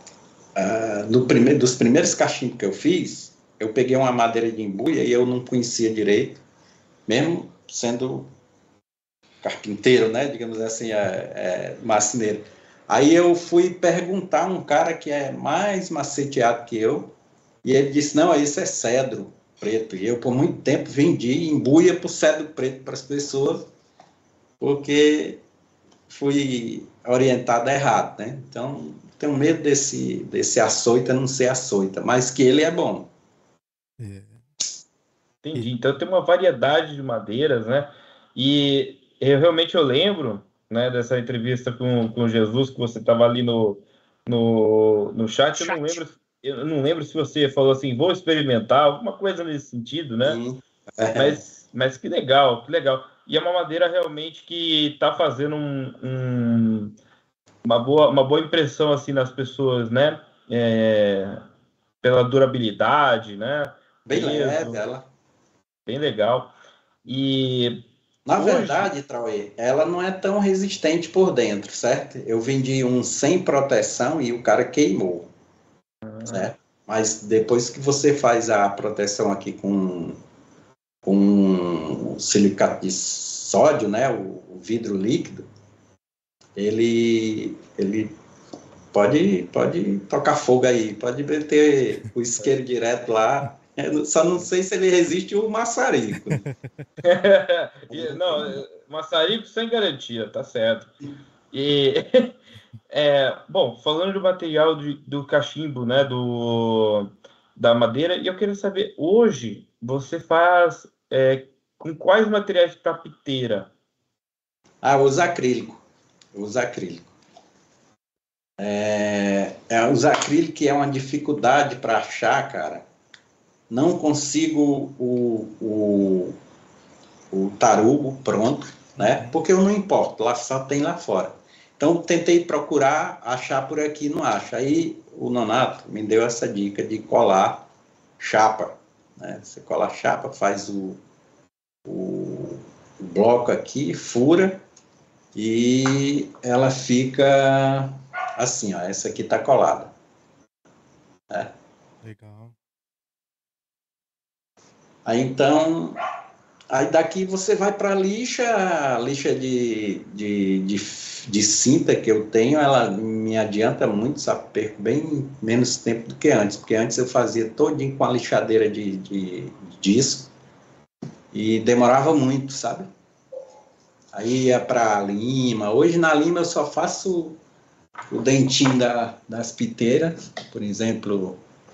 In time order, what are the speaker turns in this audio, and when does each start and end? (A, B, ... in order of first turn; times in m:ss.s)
0:00.6-0:06.4 A
0:07.1-0:08.3 A
0:09.4-0:23.7 A
0:24.6-0:25.4 A
0:26.1-0:33.1 A
0:34.0-0:34.4 B
0:35.4-0:50.4 C
0:50.2-0:51.4 A
0:51.1-0:57.0 C
0:57.6-1:01.4 C
1:02.0-1:04.8 C
1:04.1-1:05.0 A
1:05.8-1:06.5 C
1:07.0-1:08.9 C
1:08.2-1:15.3 A
1:16.0-1:16.5 C
1:16.3-1:20.2 A
1:21.0-1:25.5 A
1:26.6-1:28.2 A
1:28.9-1:36.4 A
1:36.1-1:36.8 B
1:37.0-1:40.9 C
1:37.9-1:38.6 A
1:41.5-1:42.3 C
1:42.9-1:53.7 C
1:54.8-1:55.8 A
1:56.3-1:57.1 A
1:58.6-2:02.8 A
2:03.7-2:06.4 A
2:07.3-2:17.7 A
2:09.0-2:09.4 B
2:18.2-2:21.0 A
2:21.8-2:24.6 A
2:25.3-2:29.9 A
2:32.0-2:32.5 B
2:35.0-2:36.0 A
2:36.7-2:50.3 A
2:51.3-2:52.9 A
2:54.1-2:57.4 A
2:58.1-3:01.4 A